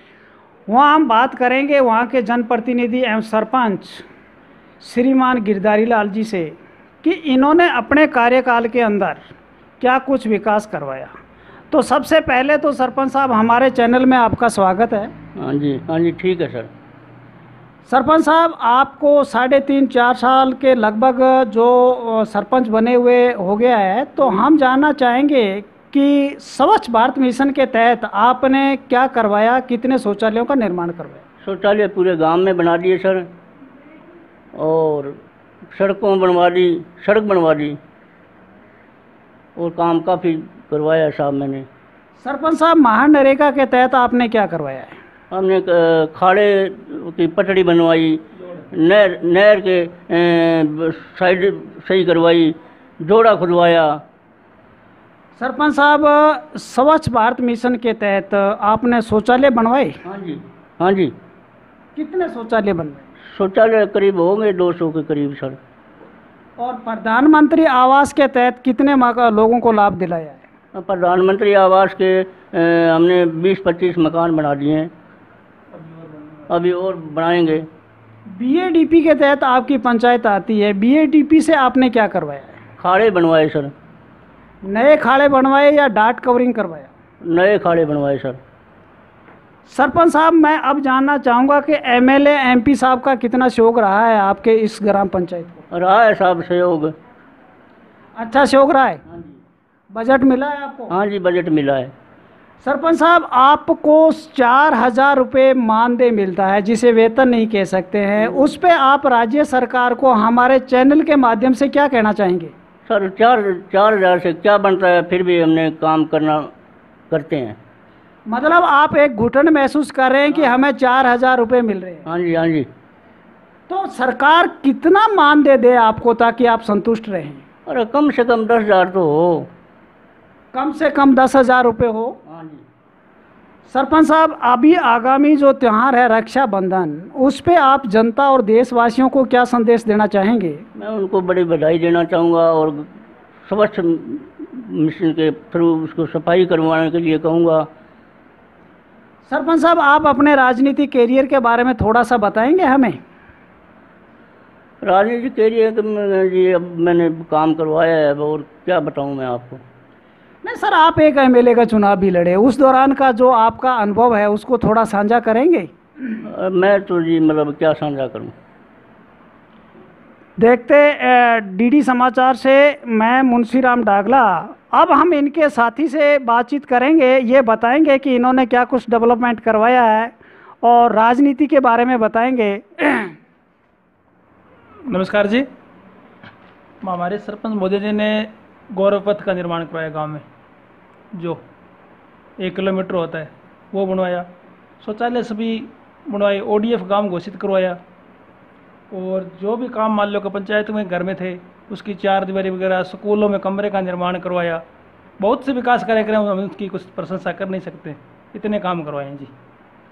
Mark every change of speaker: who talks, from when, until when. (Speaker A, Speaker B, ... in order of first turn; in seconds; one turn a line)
Speaker A: 0.7-4.0
Speaker A: 4.8-9.2
Speaker A: 9.8-11.1
Speaker A: 11.7-15.1
Speaker B: 15.3-16.7
Speaker A: 17.9-31.2
Speaker B: 31.4-33.3
Speaker B: 34.5-35.2
Speaker B: 35.7-37.8
Speaker B: 39.6-41.6
Speaker A: 42.2-45.0
Speaker B: 45.3-54.0
Speaker A: 55.4-60.0
Speaker B: 60.0-61.1
Speaker A: 62.0-63.1
Speaker B: 63.3-65.6
Speaker A: 66.6-70.4
Speaker B: 70.7-74.9
Speaker C: 75.7-76.5
Speaker B: 76.5-77.7
Speaker A: 78.3-82.6
Speaker B: 82.8-83.7
Speaker A: 84.6-86.9
Speaker B: 87.2-88.4
Speaker A: 89.7-95.7
Speaker B: 95.7-96.9
Speaker A: 98.2-99.0
Speaker A: 99.9-100.9
Speaker B: 100.9-101.9
Speaker A: 102.6-112.5
Speaker B: 108.2-108.5
Speaker B: 112.8-116.5
Speaker B: 117.1-117.5
Speaker A: 118.3-122.0
Speaker B: 120.3-120.5
Speaker B: 122.0-122.7
Speaker A: 123.7-127.4
Speaker B: 127.7-129.5
Speaker A: 130.5-132.2
Speaker B: 132.2-132.6
Speaker A: 133.7-140.7
Speaker B: 140.7-142.8
Speaker B: 143.4-147.7
Speaker A: 149.3-153.0
Speaker B: 154.8-159.6
Speaker A: 160.4-166.2
Speaker B: 166.2-168.3
Speaker A: 170.4-183.2
Speaker C: 184.9-185.5
Speaker C: 186.8-190.2
Speaker C: 191.1-191.4
Speaker C: 192.4-194.3
Speaker C: 194.8-197.8
Speaker C: 198.9-204.6
Speaker C: 205.2-209.3